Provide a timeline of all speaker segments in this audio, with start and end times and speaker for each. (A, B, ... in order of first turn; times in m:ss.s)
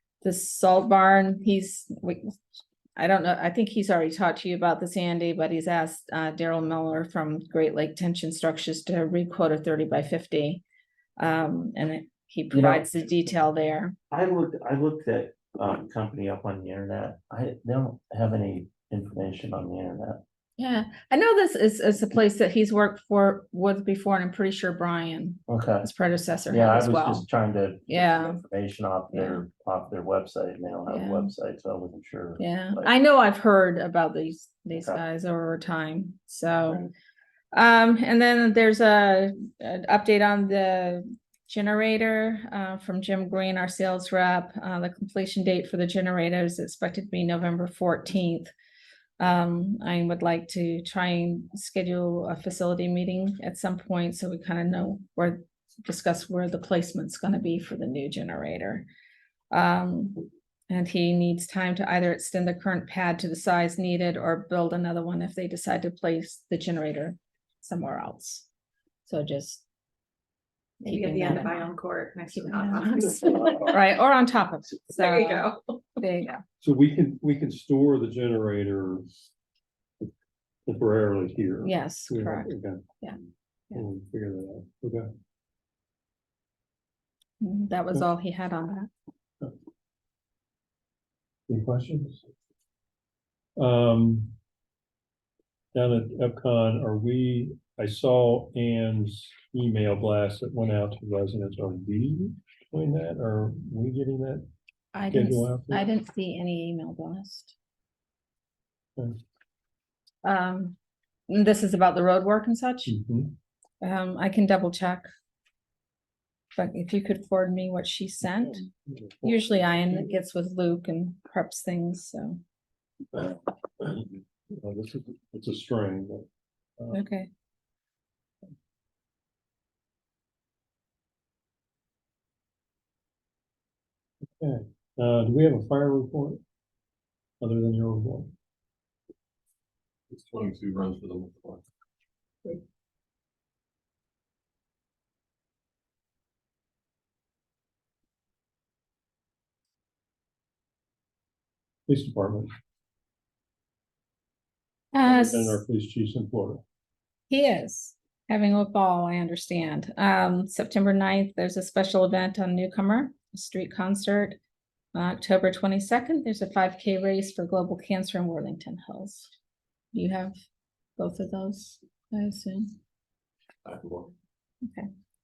0:00.2-0:02.4 A
0:03.0-0:10.6 A
0:11.2-0:13.9 A
0:12.5-0:13.1 B
0:14.1-0:20.2 B
0:20.6-0:27.3 A
0:25.5-0:25.9 B
0:26.5-0:32.9 B
0:27.9-0:28.4 A
0:29.1-0:29.4 A
0:30.9-0:31.3 A
0:32.4-0:36.8 A
0:34.7-0:35.0 B
0:36.6-0:36.9 B
0:37.5-0:48.5 A
0:49.2-0:58.8 A
0:59.5-1:08.5 A
1:09.0-1:09.6 A
1:10.8-1:11.7 A
1:10.8-1:13.8 C
1:12.3-1:15.5 A
1:14.9-1:16.0 C
1:16.0-1:16.4 A
1:16.6-1:19.0 D
1:20.6-1:22.9 D
1:21.6-1:23.8 A
1:23.7-1:25.0 D
1:27.4-1:28.9 A
1:31.5-1:32.2 D
1:33.6-1:34.3 D
1:35.7-1:44.4 D
1:44.9-1:47.5 A
1:45.1-1:45.9 D
1:50.2-1:50.8 A
1:51.3-1:53.0 A
1:52.8-1:53.4 D
1:53.8-1:55.1 A
1:56.5-1:58.6 A
1:58.6-1:59.4 D
1:59.2-2:02.4 A
2:03.1-2:06.2 D
2:06.9-2:07.3 A
2:14.4-2:16.4 D
2:17.4-2:18.3 D
2:20.1-2:21.6 E
2:31.9-2:32.5 D
2:34.9-2:35.6 A
2:35.0-2:36.6 D
2:37.3-2:44.4 A
2:44.9-2:49.3 A
2:49.9-2:50.4 A
2:51.0-2:52.7 A
2:53.6-2:54.1 E
2:54.6-2:54.9 A